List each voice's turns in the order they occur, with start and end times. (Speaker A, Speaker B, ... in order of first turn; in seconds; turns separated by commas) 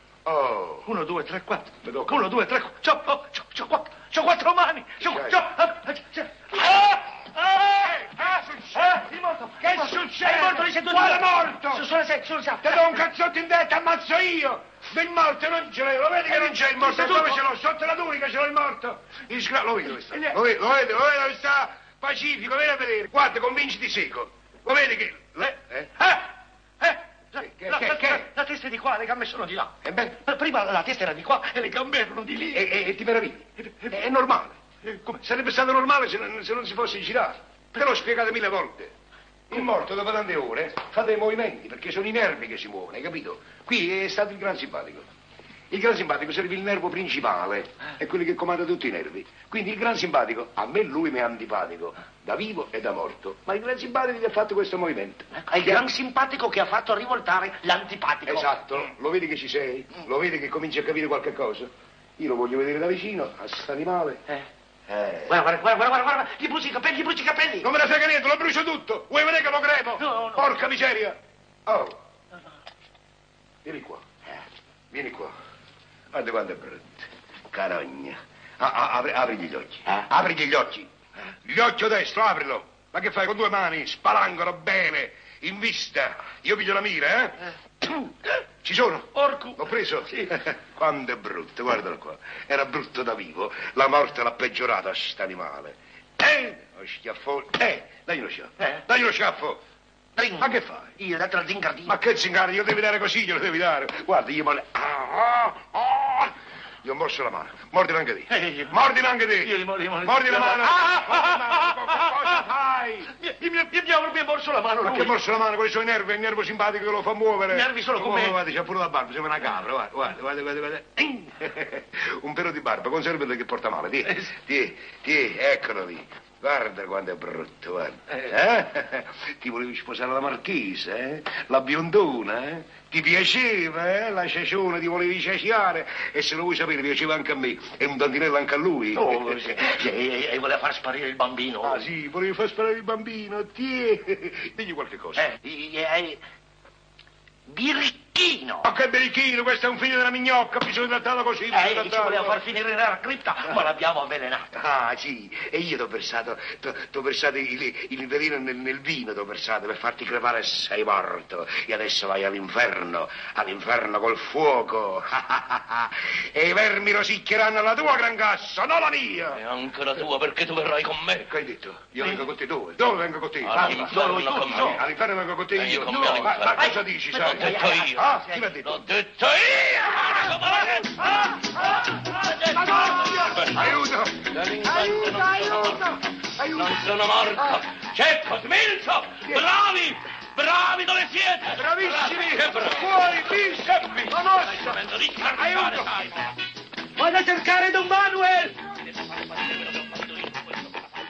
Speaker A: 0.2-0.9, Speaker B: 0.8-13.0, Speaker A: 1.8-2.3, Speaker A: 5.0-5.5, Speaker A: 7.7-11.9, Speaker A: 12.6-26.2, Speaker B: 16.3-17.4, Speaker B: 20.1-20.4, Speaker B: 26.8-32.8, Speaker A: 27.4-28.3, Speaker A: 29.8-30.2, Speaker A: 32.5-38.9, Speaker B: 33.6-33.9, Speaker A: 39.5-45.1, Speaker A: 45.7-55.9, Speaker B: 55.4-58.8, Speaker A: 58.3-64.2, Speaker A: 64.9-65.3, Speaker B: 65.2-67.7, Speaker A: 67.6-72.0, Speaker B: 70.0-70.5, Speaker A: 73.6-74.1, Speaker A: 74.9-75.3, Speaker A: 76.1-80.9, Speaker A: 81.4-99.6, Speaker B: 89.2-90.3, Speaker B: 98.6-98.8, Speaker B: 100.2-102.0, Speaker A: 100.4-101.0, Speaker A: 101.9-113.1, Speaker B: 108.3-108.8, Speaker B: 109.4-112.4, Speaker B: 113.1-115.2, Speaker A: 114.8-139.7, Speaker B: 117.5-118.4, Speaker B: 138.9-141.9, Speaker A: 141.6-145.3, Speaker B: 145.2-146.2, Speaker B: 147.5-148.7, Speaker A: 148.6-152.4, Speaker B: 151.5-154.6, Speaker A: 154.5-169.4, Speaker C: 169.3-171.3, Speaker A: 171.2-178.9, Speaker C: 173.4-174.9, Speaker B: 173.6-174.8, Speaker C: 175.5-196.3, Speaker B: 175.9-178.5, Speaker A: 181.0-181.5, Speaker A: 182.5-186.8, Speaker A: 191.5-196.1, Speaker B: 197.0-198.7, Speaker C: 199.1-200.3, Speaker B: 199.5-200.5